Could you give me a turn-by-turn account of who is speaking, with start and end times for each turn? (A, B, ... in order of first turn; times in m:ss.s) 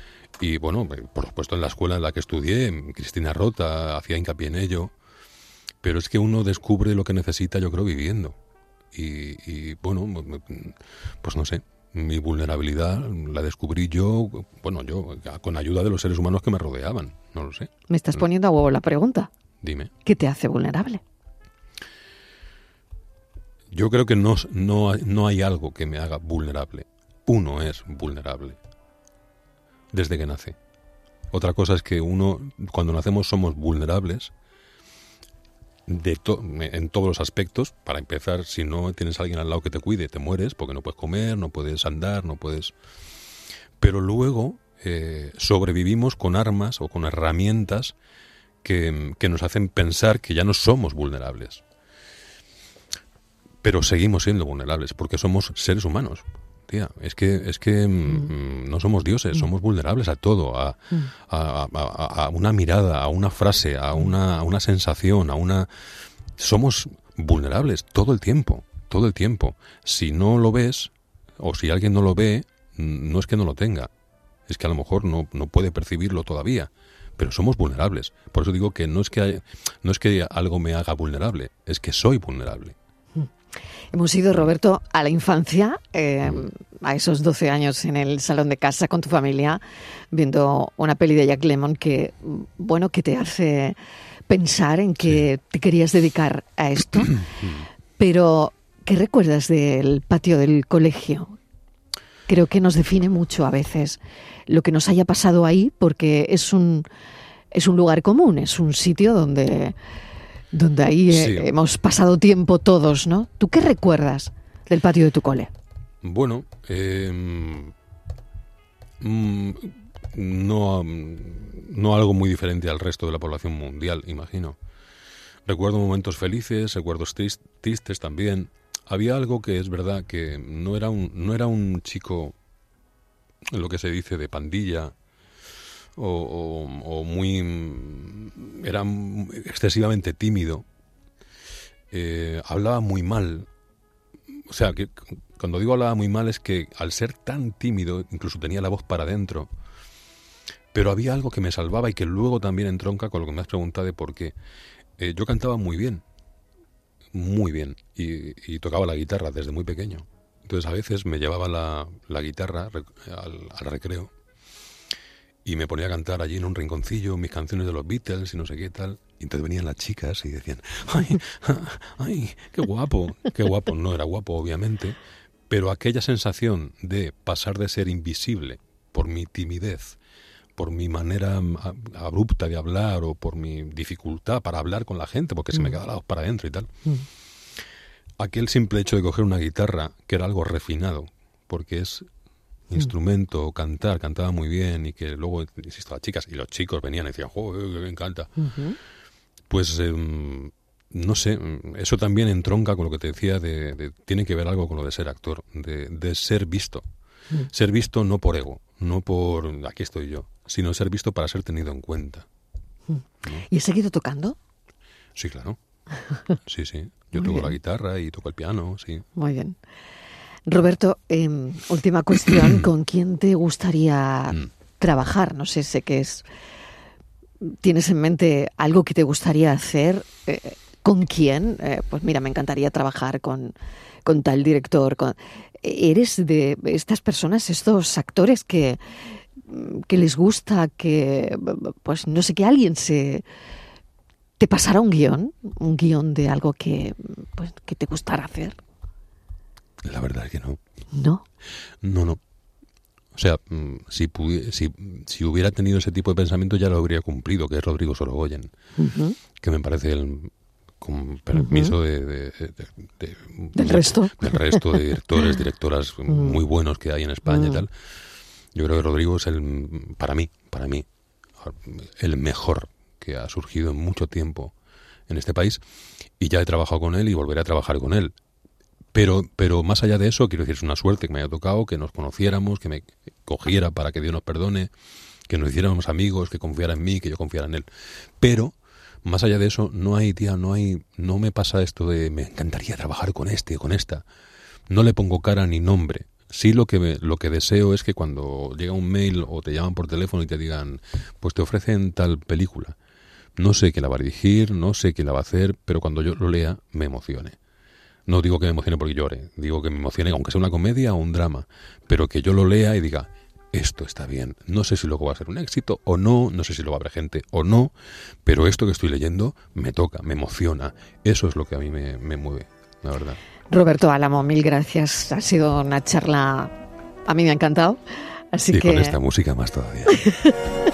0:00.4-0:04.9 A
0:05.8-0:08.4 A
0:08.9-0:18.2 A
0:17.9-0:19.3 B
0:19.6-0:19.9 A
0:20.0-0:21.0 B
0:23.7-0:28.6 A
0:29.9-0:30.6 A
0:31.3-0:34.3 A
0:35.9-0:42.7 A
0:43.8-0:47.9 A
0:48.6-0:51.6 A
0:53.6-1:05.7 A
1:06.4-1:13.9 A
1:14.5-1:22.7 A
1:23.9-1:29.6 B
1:30.1-1:33.8 B
1:34.3-1:37.4 B
1:37.3-1:37.6 A
1:38.0-1:41.4 B
1:42.3-1:46.8 B
1:47.5-1:49.8 B
1:50.5-1:55.5 B
1:51.1-1:51.5 A
1:56.0-1:57.7 A
1:59.0-2:04.6 A
2:05.4-2:12.3 A
2:13.5-2:14.9 A
2:16.0-2:20.6 A
2:21.9-2:23.5 A
2:24.5-2:29.5 A
2:30.7-2:34.3 A
2:35.0-2:36.0 A
2:37.1-2:44.1 A
2:45.4-2:55.0 A
2:55.5-3:00.0 A
3:00.6-3:06.7 A
3:08.2-3:12.1 A
3:12.7-3:18.5 A
3:18.4-3:18.8 B
3:19.5-3:26.8 A
3:27.5-3:32.2 A
3:32.9-3:34.4 B
3:35.2-3:35.6 A
3:36.4-3:39.1 A
3:37.1-3:37.5 B
3:39.2-3:39.6 B
3:40.4-3:46.2 B
3:42.3-3:42.6 A
3:47.4-3:58.8 B
3:59.4-4:03.2 B
4:04.4-4:08.6 B
4:09.8-4:10.6 A
4:10.9-4:11.2 B
4:11.8-4:12.2 A
4:13.1-4:18.5 A
4:18.8-4:19.2 B
4:19.4-4:27.7 A
4:21.4-4:21.7 B
4:23.5-4:24.6 B
4:27.3-4:27.6 B
4:28.5-4:30.8 A
4:31.4-4:34.5 A
4:35.1-4:35.6 A
4:36.2-4:38.1 A
4:38.9-4:44.7 A
4:45.3-4:47.7 A
4:48.2-4:54.0 A
4:54.7-5:02.8 A
5:03.4-5:07.4 A
5:08.0-5:17.7 A
5:18.2-5:23.2 A
5:23.5-5:26.5 B
5:27.0-5:27.8 B
5:28.3-5:29.0 B
5:28.5-5:30.0 A
5:29.9-5:30.4 B